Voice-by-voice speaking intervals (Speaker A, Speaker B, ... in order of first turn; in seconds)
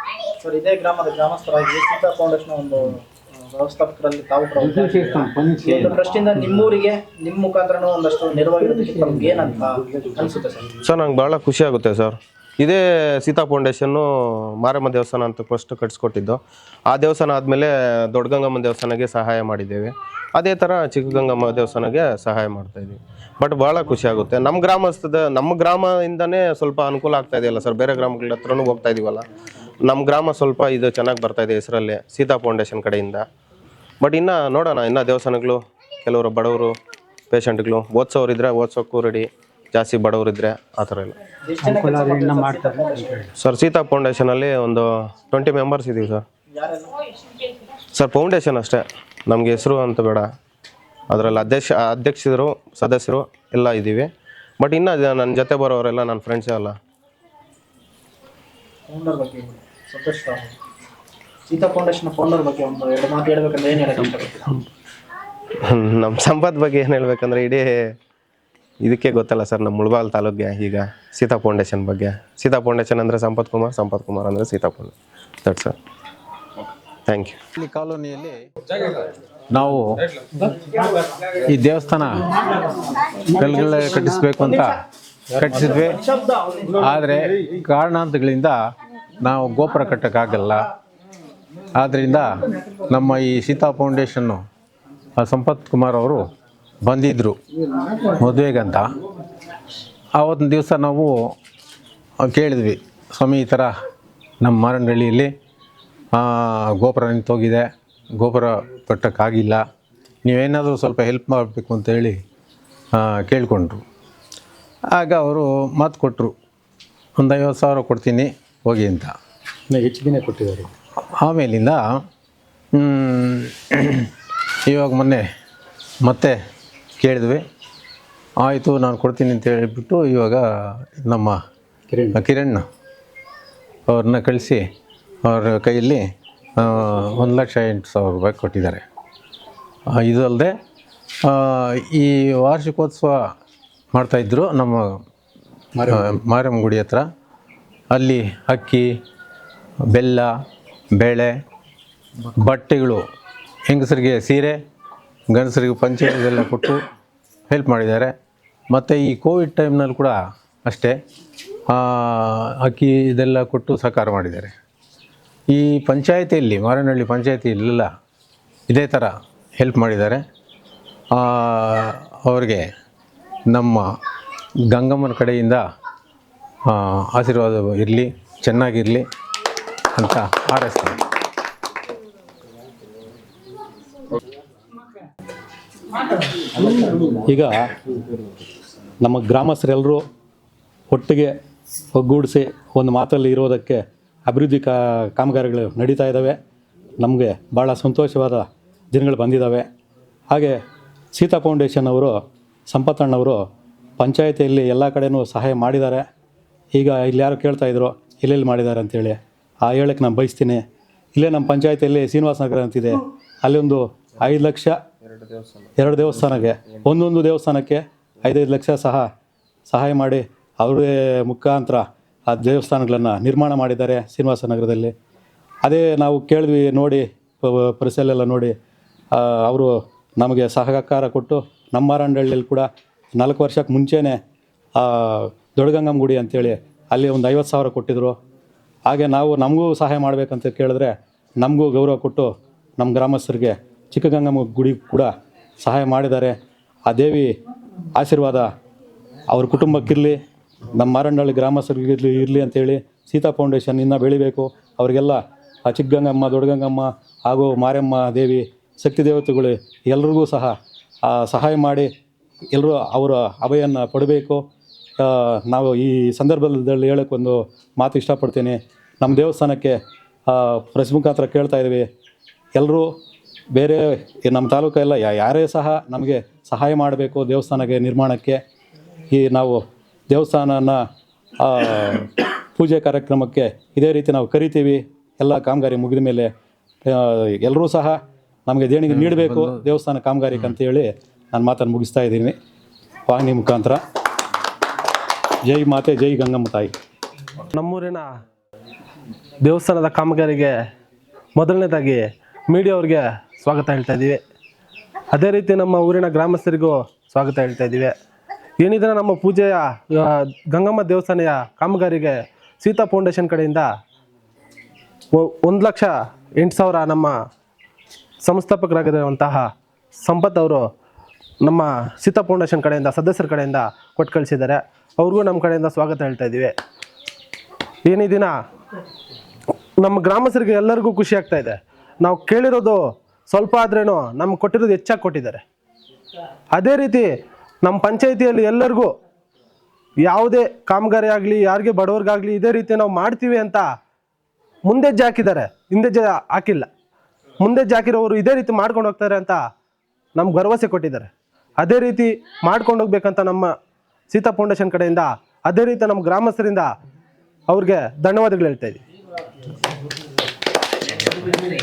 Speaker A: 0.4-10.7, 41.4-43.3, 46.5-46.9, 58.9-60.5, 61.5-64.5, 86.1-86.6
Speaker B: 4.6-6.1, 42.2-42.6, 77.5-78.4, 79.5-79.9, 81.5-82.1, 83.3-84.8, 85.3-86.0, 86.8-88.6, 89.2-90.7, 91.8-94.4, 95.2-96.2, 96.8-97.4, 98.0-98.8, 100.2-101.3, 102.2-103.7, 104.4-105.3, 106.1-109.6, 110.2-112.2, 112.9-113.8, 114.9-116.3, 117.2-119.1, 121.2-121.8, 122.7-124.1, 124.7-125.2, 126.0-126.3, 127.0-127.4, 128.4-131.4, 132.1-132.6, 133.9-134.6, 135.2-136.0, 136.6-138.8, 139.9-140.5, 141.2-143.2, 143.9-145.0, 145.8-147.1, 147.9-148.9, 149.9-150.3, 150.9-151.3, 152.4-153.0, 153.7-154.6, 155.3-156.8, 157.5-158.1, 158.7-160.9, 161.7-164.5, 165.5-167.9, 168.7-170.2, 171.1-172.6, 173.5-173.8, 174.7-175.6, 176.7-179.0, 179.9-181.0, 288.9-289.6
Speaker C: 10.8-14.1, 14.6-16.4, 16.9-29.2, 29.8-33.2, 34.0-36.7, 37.3-41.1, 43.4-46.2, 47.9-50.2, 51.1-54.1, 54.6-56.7, 65.7-67.7, 68.8-74.9, 75.4-75.7, 77.1-77.3
Speaker D: 119.7-120.7, 131.9-132.2, 187.1-187.7, 189.0-190.0, 190.9-191.3, 191.9-196.4, 197.0-199.6, 200.3-200.6, 201.1-202.2, 202.7-203.4, 204.0-206.0, 206.7-210.6, 211.1-214.8, 215.8-219.1, 219.7-224.9, 225.6-228.5, 229.1-232.7, 233.2-234.2, 234.8-238.1, 238.9-246.3, 246.9-247.3, 247.9-248.5, 249.3-250.2, 250.8-260.5, 261.1-261.9, 262.5-264.4, 265.0-269.8, 270.3-271.9, 272.6-272.9, 273.5-278.4, 279.1-280.8, 281.4-286.3, 286.8-292.3, 293.1-293.8, 295.4-296.7
Speaker E: 297.6-298.0, 299.4-300.5, 301.4-304.2, 305.1-307.9, 308.6-313.6, 315.2-315.9, 316.4-317.1, 318.2-319.4, 320.1-320.6, 321.4-326.5, 327.9-328.3, 329.8-332.8, 333.3-335.4, 336.6-337.1, 337.6-338.9, 340.0-343.6, 344.7-346.6, 347.4-349.4, 350.1-351.0, 351.6-353.5, 354.1-356.7, 357.5-358.8